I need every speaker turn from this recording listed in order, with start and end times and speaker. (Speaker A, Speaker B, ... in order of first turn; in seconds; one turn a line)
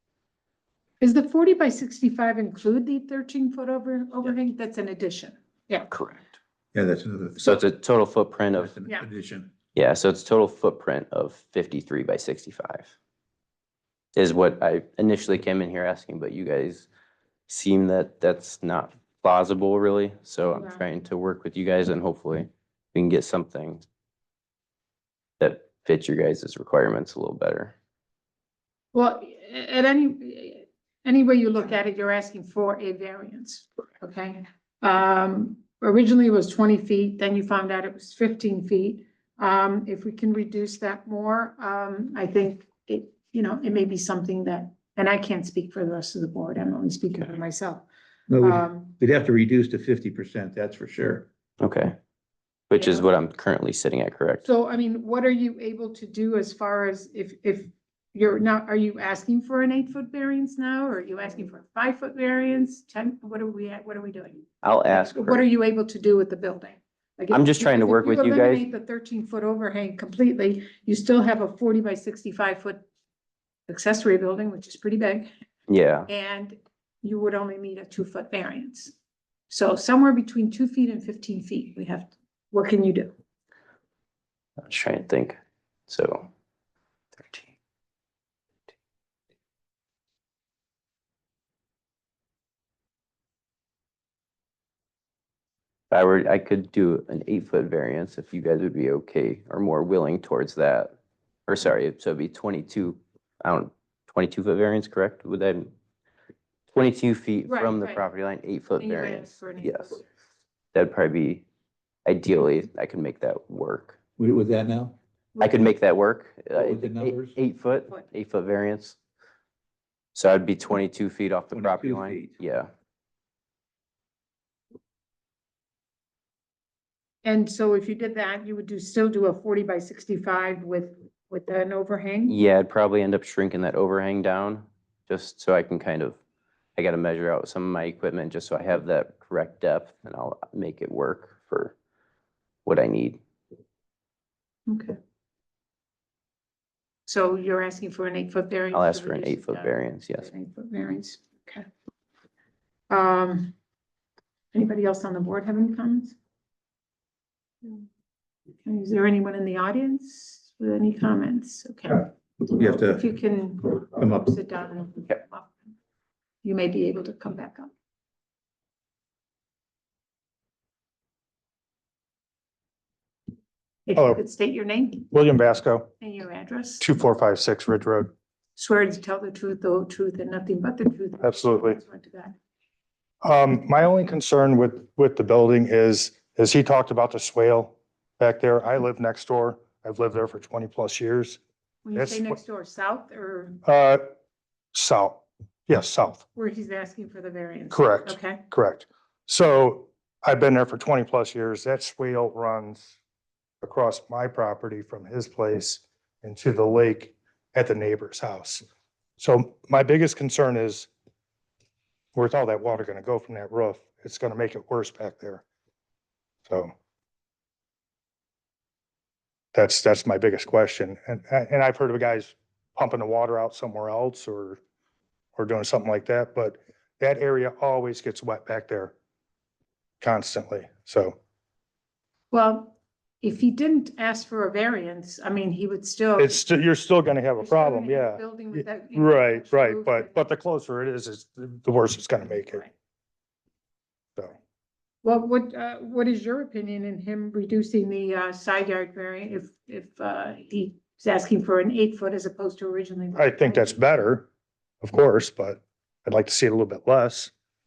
Speaker A: 1.0-5.9
Speaker B: 5.9-6.3
Speaker C: 6.7-7.6
Speaker B: 7.4-8.7
Speaker C: 8.6-9.5
Speaker B: 9.8-12.9
Speaker B: 14.2-16.9
Speaker B: 17.5-23.8
Speaker A: 20.5-20.8
Speaker B: 25.4-27.7
Speaker A: 28.9-47.9
Speaker C: 48.3-51.3
Speaker A: 48.4-48.9
Speaker B: 51.6-52.0
Speaker B: 52.7-54.5
Speaker A: 52.8-53.1
Speaker A: 54.4-72.8
Speaker B: 64.6-65.4
Speaker B: 67.3-68.6
Speaker A: 73.7-75.3
Speaker B: 75.7-76.1
Speaker A: 76.1-78.9
Speaker A: 79.5-83.1
Speaker B: 84.6-86.3
Speaker B: 87.2-87.5
Speaker B: 95.9-100.9
Speaker B: 101.5-105.7
Speaker B: 106.7-110.0
Speaker A: 107.5-108.0
Speaker A: 108.8-110.1
Speaker B: 110.7-111.4
Speaker B: 112.1-114.0
Speaker C: 114.2-115.0
Speaker A: 115.3-115.7
Speaker B: 115.4-119.0
Speaker C: 116.5-117.4
Speaker B: 120.1-122.7
Speaker C: 121.5-122.3
Speaker A: 127.2-132.4
Speaker B: 132.3-136.2
Speaker B: 136.8-141.7
Speaker B: 142.7-143.2
Speaker A: 144.7-145.0
Speaker A: 147.1-151.7
Speaker B: 148.7-150.3
Speaker A: 152.9-153.5
Speaker A: 154.5-156.2
Speaker A: 158.6-165.7
Speaker C: 162.5-163.1
Speaker C: 163.9-164.4
Speaker A: 166.4-167.7
Speaker A: 173.9-175.1
Speaker D: 175.1-175.9
Speaker A: 176.0-176.8
Speaker D: 176.8-178.1
Speaker A: 178.6-182.3
Speaker D: 181.2-181.8
Speaker D: 183.2-191.4
Speaker A: 191.8-193.6
Speaker D: 192.0-192.4
Speaker D: 193.6-194.0
Speaker D: 194.7-196.2
Speaker A: 196.4-198.4
Speaker D: 197.7-202.9
Speaker D: 203.6-208.6
Speaker D: 209.2-210.9
Speaker D: 212.2-215.4
Speaker D: 216.5-216.7
Speaker D: 219.5-224.6
Speaker D: 225.4-228.9
Speaker D: 230.0-231.2
Speaker A: 232.3-236.4
Speaker D: 236.2-242.6
Speaker A: 237.4-240.3
Speaker A: 242.5-242.7
Speaker A: 245.0-253.8
Speaker D: 253.2-254.3
Speaker D: 254.8-257.3